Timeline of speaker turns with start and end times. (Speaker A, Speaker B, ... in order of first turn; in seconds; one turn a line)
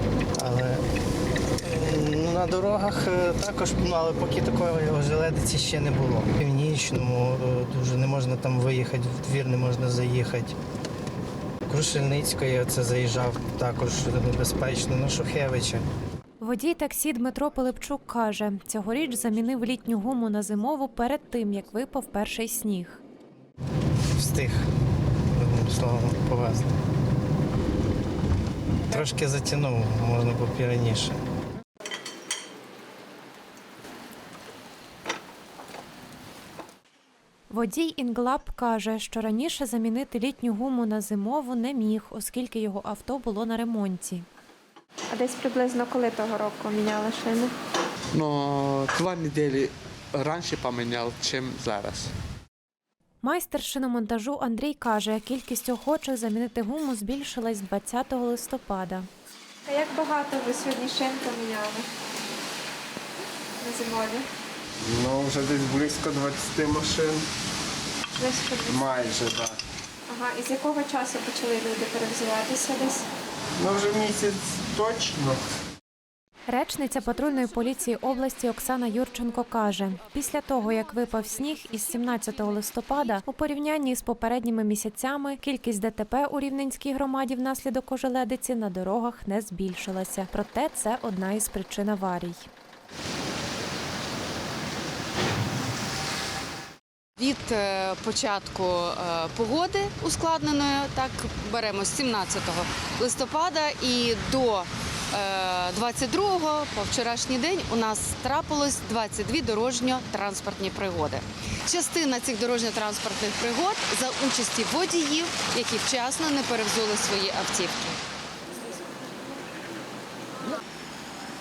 Speaker A: 0.4-0.8
Speaker A: 1.6-10.6
Speaker A: 11.7-15.8
Speaker B: 16.4-23.0
Speaker A: 24.2-24.6
Speaker A: 25.3-26.8
Speaker A: 28.9-31.2
Speaker B: 37.5-44.3
Speaker C: 45.1-47.5
Speaker D: 48.1-52.1
Speaker B: 53.2-59.1
Speaker C: 59.7-61.9
Speaker C: 63.6-64.3
Speaker E: 64.8-67.2
Speaker C: 68.2-68.8
Speaker E: 68.7-69.6
Speaker C: 70.1-73.1
Speaker E: 73.6-75.4
Speaker B: 76.5-92.5
Speaker F: 97.2-118.0